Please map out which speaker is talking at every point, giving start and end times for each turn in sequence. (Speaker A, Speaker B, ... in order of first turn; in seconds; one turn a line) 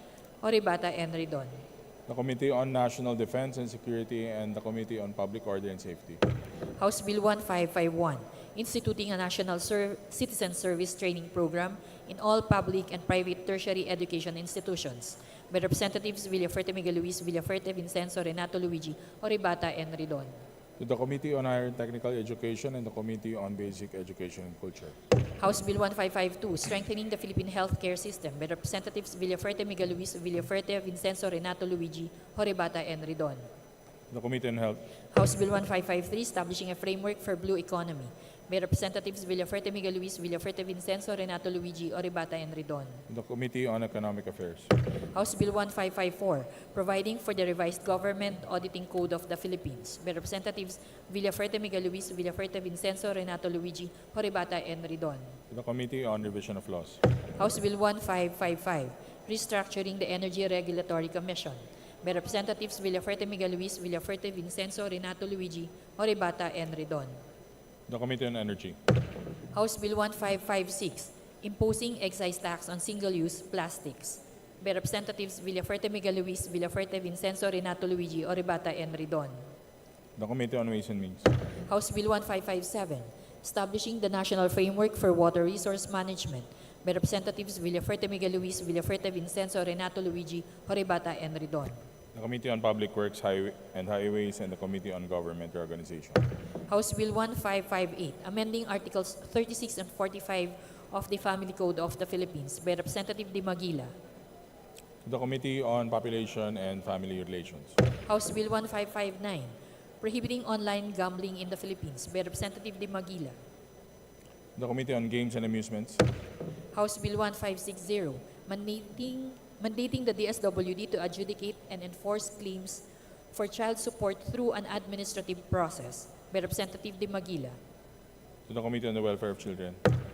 Speaker A: 0.4-1.5
Speaker B: 2.1-6.2
Speaker A: 6.8-20.3
Speaker B: 20.8-24.9
Speaker A: 25.4-33.4
Speaker B: 34.1-34.8
Speaker A: 35.1-43.0
Speaker B: 43.1-44.7
Speaker A: 45.1-55.3
Speaker B: 55.5-57.0
Speaker A: 57.4-67.1
Speaker B: 67.9-68.8
Speaker A: 69.5-79.4
Speaker B: 80.2-81.3
Speaker A: 81.7-91.8
Speaker B: 92.1-96.2
Speaker A: 96.7-103.9
Speaker B: 105.0-107.8
Speaker A: 108.1-113.3
Speaker B: 114.5-116.0
Speaker A: 116.7-127.6
Speaker B: 128.5-129.8